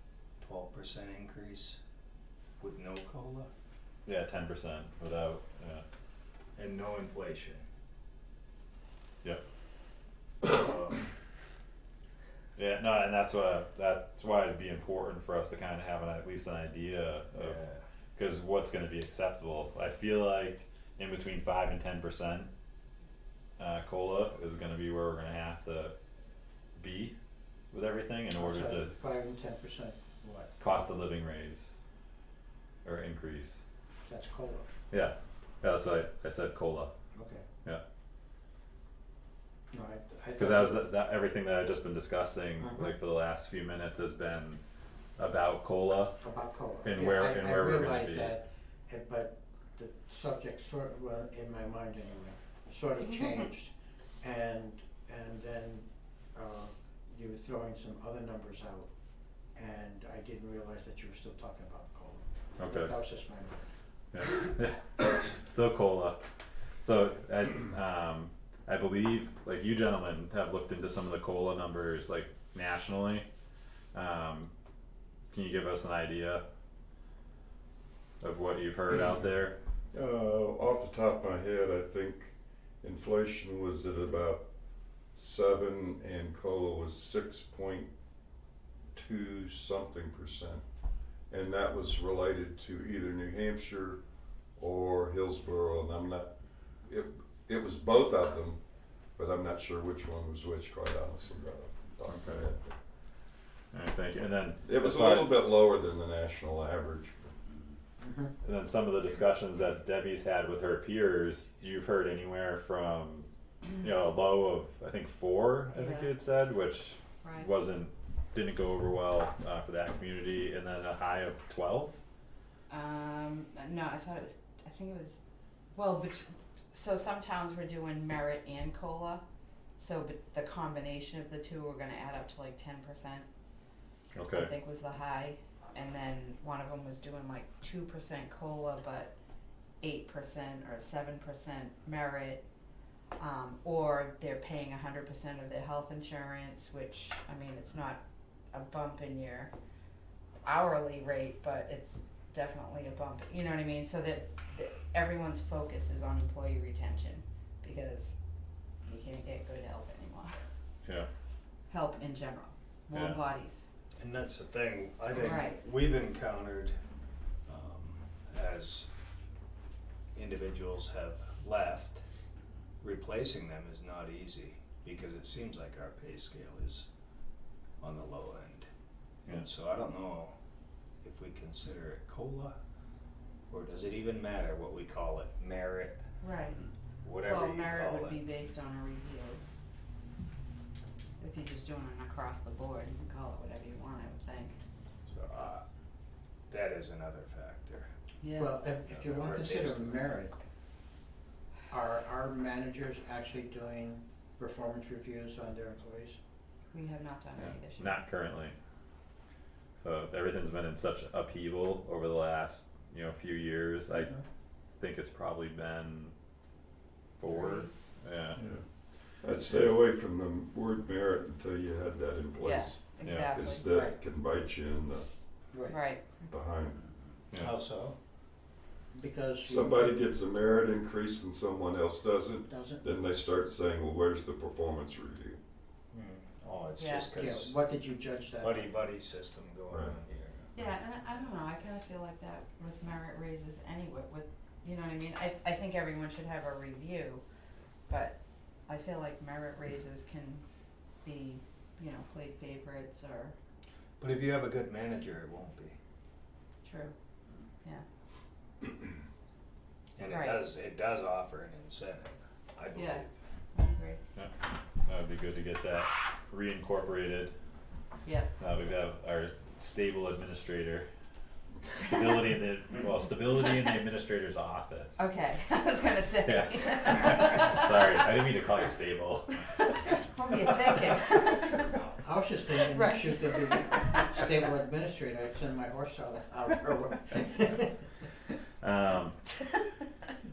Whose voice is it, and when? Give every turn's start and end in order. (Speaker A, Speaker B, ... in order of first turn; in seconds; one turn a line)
Speaker A: 0.4-1.8
Speaker A: 2.6-3.5
Speaker B: 4.0-5.8
Speaker A: 6.5-7.7
Speaker A: 10.4-11.1
Speaker B: 12.6-17.6
Speaker A: 17.3-17.8
Speaker B: 18.1-22.5
Speaker B: 23.6-25.9
Speaker B: 26.8-27.1
Speaker B: 27.7-28.9
Speaker C: 28.3-30.5
Speaker B: 30.6-31.8
Speaker B: 32.8-33.6
Speaker C: 34.0-34.7
Speaker B: 34.9-36.9
Speaker C: 37.1-37.4
Speaker C: 39.7-40.8
Speaker B: 40.4-44.6
Speaker C: 42.6-42.9
Speaker B: 45.2-46.2
Speaker C: 46.2-58.9
Speaker B: 46.8-48.4
Speaker D: 53.0-53.5
Speaker C: 59.5-63.6
Speaker B: 62.6-62.9
Speaker B: 64.1-66.2
Speaker B: 66.8-73.2
Speaker B: 73.9-74.5
Speaker B: 75.3-76.4
Speaker B: 78.2-79.5
Speaker E: 79.9-84.5
Speaker E: 85.1-87.9
Speaker E: 88.9-90.6
Speaker E: 91.3-94.0
Speaker E: 94.5-96.3
Speaker E: 96.8-98.6
Speaker E: 99.1-102.7
Speaker B: 102.1-102.5
Speaker B: 103.7-105.3
Speaker E: 104.6-107.3
Speaker C: 108.0-108.3
Speaker B: 108.4-122.0
Speaker D: 115.7-116.2
Speaker D: 117.2-117.5
Speaker D: 122.7-125.2
Speaker D: 125.7-129.2
Speaker D: 129.8-133.3
Speaker B: 134.1-134.5
Speaker D: 134.3-139.1
Speaker D: 139.8-142.4
Speaker D: 143.2-148.0
Speaker D: 148.5-149.5
Speaker D: 150.4-158.2
Speaker D: 158.8-160.4
Speaker D: 161.7-163.7
Speaker B: 162.9-163.2
Speaker A: 164.0-166.8
Speaker D: 165.1-165.6
Speaker A: 167.4-168.9
Speaker A: 170.1-172.0
Speaker A: 172.8-176.9
Speaker A: 177.8-178.7
Speaker A: 179.2-180.3
Speaker A: 181.0-182.6
Speaker A: 183.5-186.1
Speaker D: 186.2-186.6
Speaker A: 187.0-188.2
Speaker D: 187.2-189.4
Speaker D: 191.2-194.6
Speaker A: 195.1-195.6
Speaker A: 196.5-197.9
Speaker D: 198.2-198.6
Speaker C: 198.3-200.3
Speaker A: 198.8-200.2
Speaker C: 201.7-206.2
Speaker D: 206.7-208.0
Speaker B: 207.4-208.5
Speaker B: 209.8-214.1
Speaker B: 214.8-216.1
Speaker B: 217.2-218.4
Speaker D: 217.3-217.7
Speaker E: 218.3-225.1
Speaker D: 222.4-223.6
Speaker B: 223.0-223.3
Speaker C: 223.7-223.9
Speaker C: 225.5-225.8
Speaker D: 225.7-226.3
Speaker E: 226.3-226.9
Speaker A: 227.4-227.9
Speaker C: 228.9-230.0
Speaker E: 229.4-235.4
Speaker C: 232.5-232.8
Speaker A: 235.9-237.6
Speaker D: 236.8-237.1
Speaker C: 237.1-238.7
Speaker A: 238.4-240.7
Speaker E: 239.7-239.9
Speaker D: 240.5-247.2
Speaker D: 247.9-250.4
Speaker D: 251.0-253.3
Speaker A: 254.0-255.8
Speaker D: 256.6-256.9
Speaker A: 260.0-263.1
Speaker D: 260.0-260.4
Speaker D: 262.7-264.0
Speaker B: 264.8-267.3
Speaker D: 268.0-268.3
Speaker B: 268.4-270.9
Speaker B: 271.7-275.1
Speaker D: 275.0-278.2
Speaker B: 276.2-279.4
Speaker D: 279.4-281.8
Speaker C: 281.9-287.9
Speaker D: 282.6-284.2
Speaker B: 288.6-289.2